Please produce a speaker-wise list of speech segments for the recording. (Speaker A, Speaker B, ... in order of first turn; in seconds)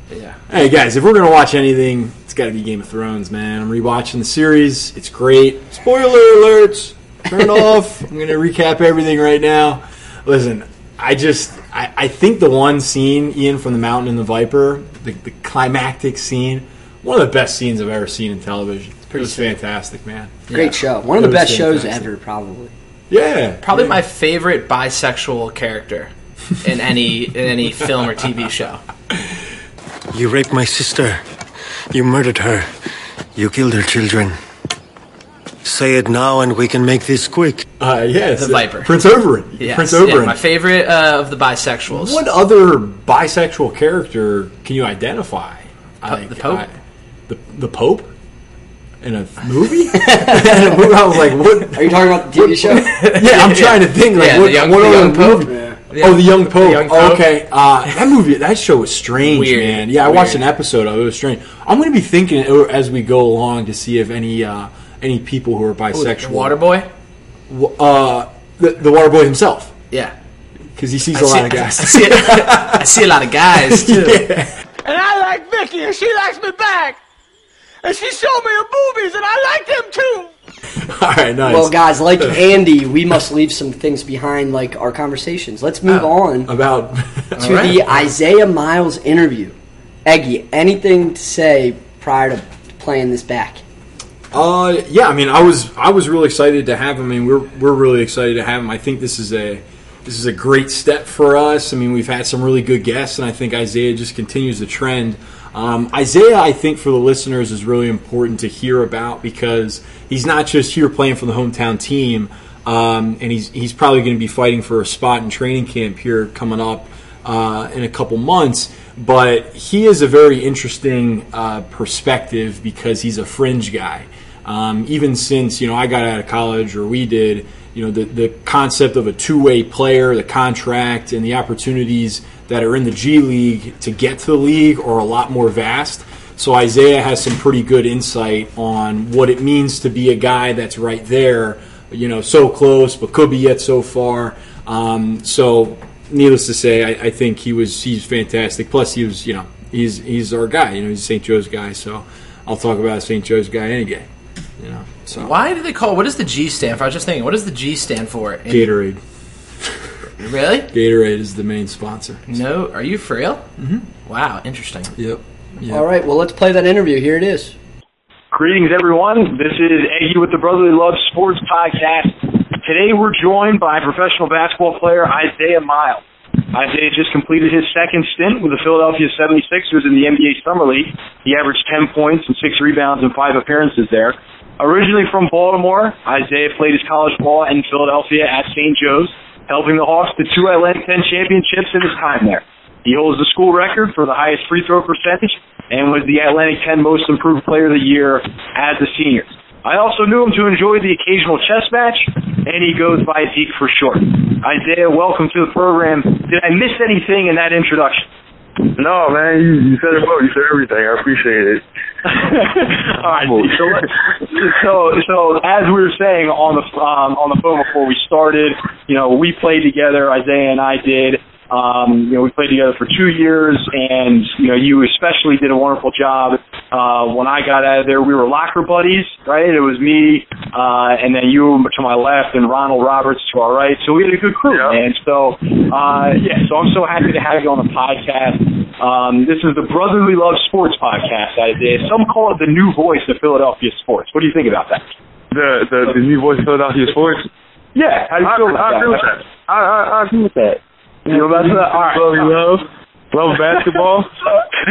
Speaker A: 0.1-0.4, 20.5-20.8, 23.6-28.8, 38.4-38.9, 39.6-42.2, 46.0-46.6, 52.9-57.3, 59.2-60.4, 65.9-66.9, 71.1-74.2, 87.4-87.8, 155.1-158.7, 160.2-160.7, 162.3-163.4, 164.1-164.9
Speaker B: 0.5-20.5, 21.1-22.1, 23.1-24.0, 37.8-40.4, 41.9-46.7, 47.3-48.1, 49.0-66.6, 67.5-69.7, 70.8-73.0, 73.5-74.5, 80.8-82.4, 85.8-87.9, 94.3-154.1, 154.6-155.3, 158.5-159.0, 160.7-162.2, 163.6-163.9, 164.9-165.8
Speaker C: 19.1-19.5, 20.5-22.7, 50.0-50.9, 51.7-52.9, 55.5-55.8, 81.4-86.5, 87.4-93.6, 165.7-167.5
Speaker D: 30.1-31.2, 31.9-32.7, 33.4-34.4, 35.6-37.6
Speaker E: 74.8-77.0, 77.8-80.3
Speaker F: 168.3-176.0, 176.5-208.1, 212.2-244.8, 247.7-249.2, 251.1-252.3
Speaker G: 208.7-211.6, 212.1-213.8, 234.5-234.8, 245.3-247.3, 248.2-254.1